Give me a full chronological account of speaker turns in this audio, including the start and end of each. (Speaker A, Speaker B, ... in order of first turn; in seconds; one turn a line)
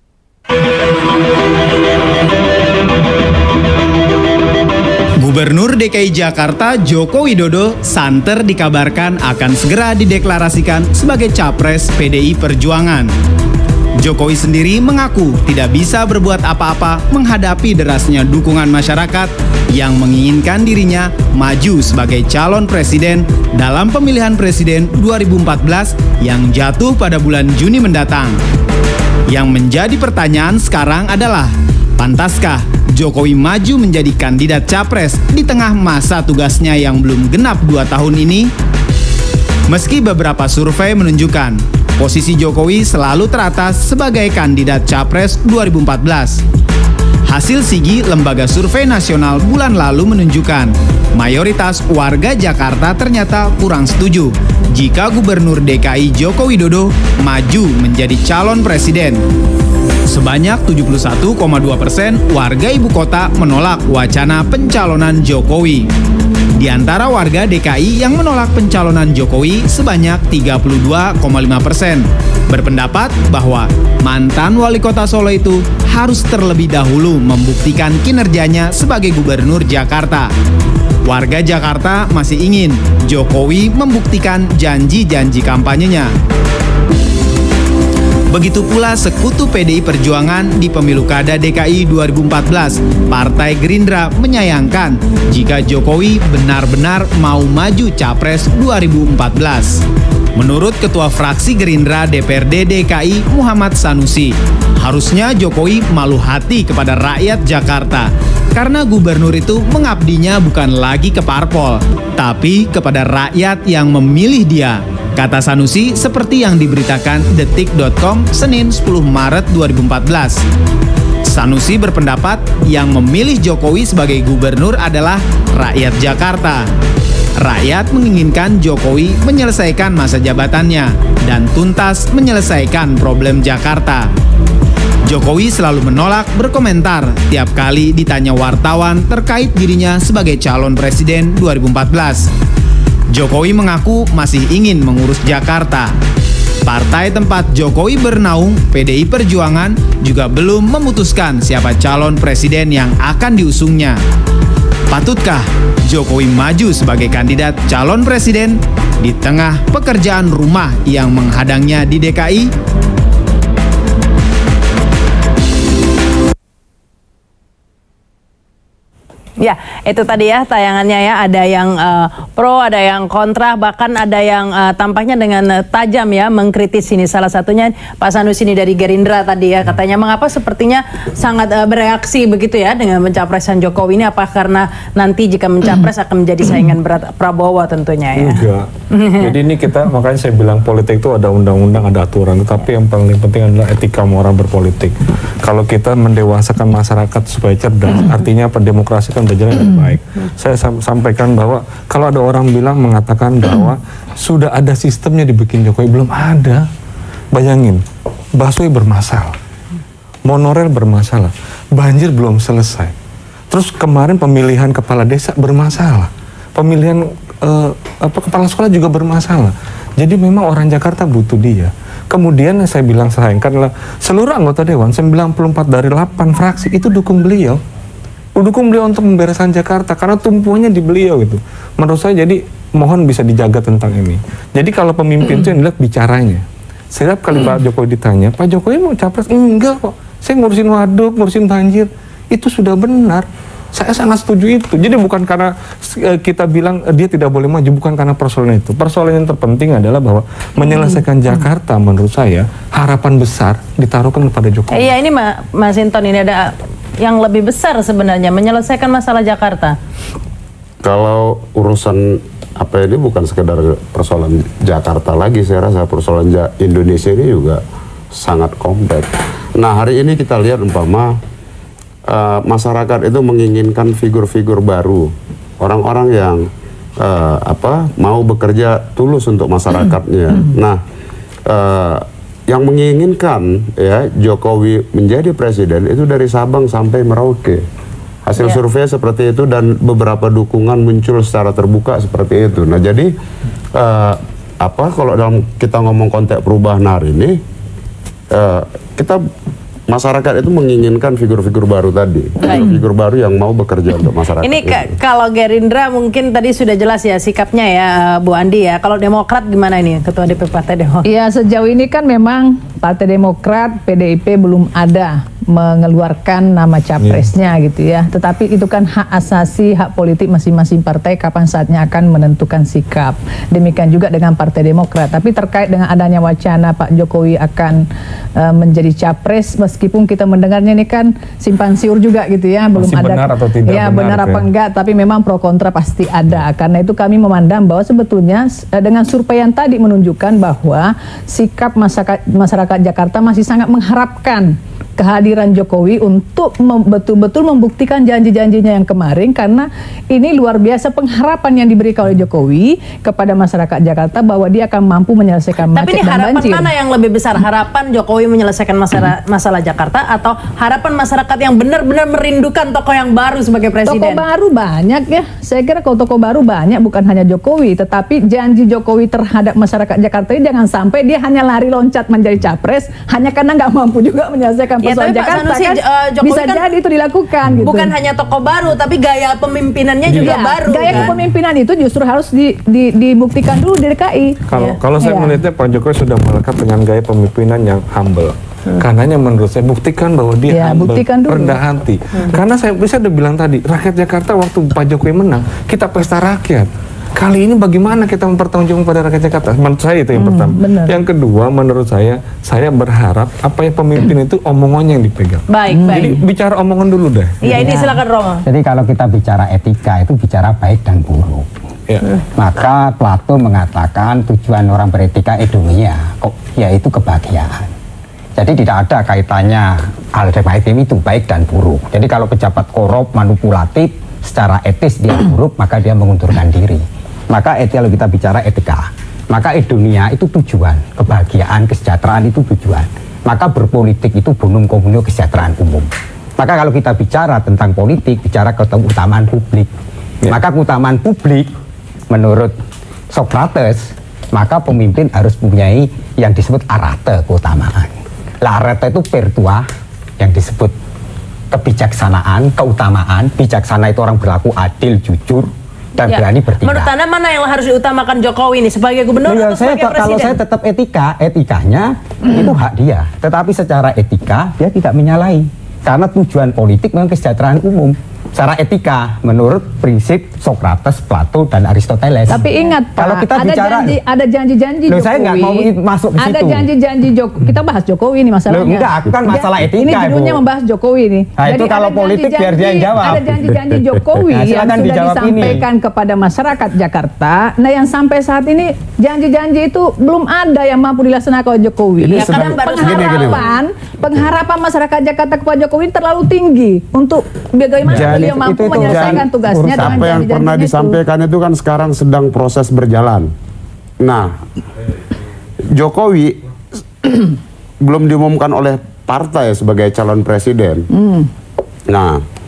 Speaker A: 5.2-13.1
Speaker A: 14.0-28.4
Speaker A: 29.3-38.5
Speaker A: 39.7-46.4
Speaker A: 47.3-59.2
Speaker A: 60.1-65.9
Speaker A: 66.5-80.3
Speaker A: 81.0-86.1
Speaker A: 88.3-99.8
Speaker A: 100.4-120.5
Speaker A: 121.2-126.7
Speaker A: 127.4-134.1
Speaker A: 135.1-142.3
Speaker A: 143.1-146.0
Speaker A: 146.7-154.0
Speaker A: 154.9-162.5
Speaker B: 169.4-189.3
Speaker C: 188.2-206.7
Speaker C: 207.3-207.8
Speaker C: 208.4-209.4
Speaker C: 210.2-212.9
Speaker C: 213.5-227.6
Speaker C: 228.4-254.9
Speaker B: 254.7-259.8
Speaker D: 260.8-267.6
Speaker D: 268.1-271.2
Speaker D: 272.1-280.8
Speaker D: 281.5-287.6
Speaker D: 288.3-293.1
Speaker D: 293.8-297.4
Speaker D: 298.3-299.2
Speaker D: 299.9-304.9
Speaker B: 302.4-302.8
Speaker B: 304.4-311.1
Speaker E: 311.1-327.8
Speaker C: 317.0-317.3
Speaker E: 328.4-356.7
Speaker C: 332.8-334.5
Speaker B: 355.7-364.2
Speaker E: 363.9-377.9
Speaker B: 374.8-376.7
Speaker B: 377.6-381.1
Speaker E: 380.1-385.3
Speaker C: 384.5-407.4
Speaker E: 390.5-391.6
Speaker E: 400.2-401.0
Speaker B: 405.5-406.2
Speaker E: 405.7-406.2
Speaker B: 407.4-408.4
Speaker E: 407.5-407.9
Speaker F: 408.4-411.5
Speaker F: 412.4-417.7
Speaker F: 418.4-439.7
Speaker F: 440.2-441.5
Speaker F: 442.1-442.5
Speaker F: 443.1-449.7
Speaker F: 450.2-450.8
Speaker F: 451.5-456.9
Speaker B: 456.1-460.4
Speaker F: 459.2-474.0
Speaker E: 472.3-501.0
Speaker F: 474.9-476.7
Speaker F: 478.5-480.4
Speaker F: 481.4-483.6
Speaker F: 484.2-485.6
Speaker D: 492.0-493.4
Speaker B: 492.1-493.5
Speaker F: 497.9-500.1
Speaker D: 498.8-499.2
Speaker D: 499.8-503.3
Speaker D: 504.0-504.4
Speaker D: 505.7-506.4
Speaker D: 507.0-510.9
Speaker E: 510.9-511.3
Speaker D: 511.9-512.2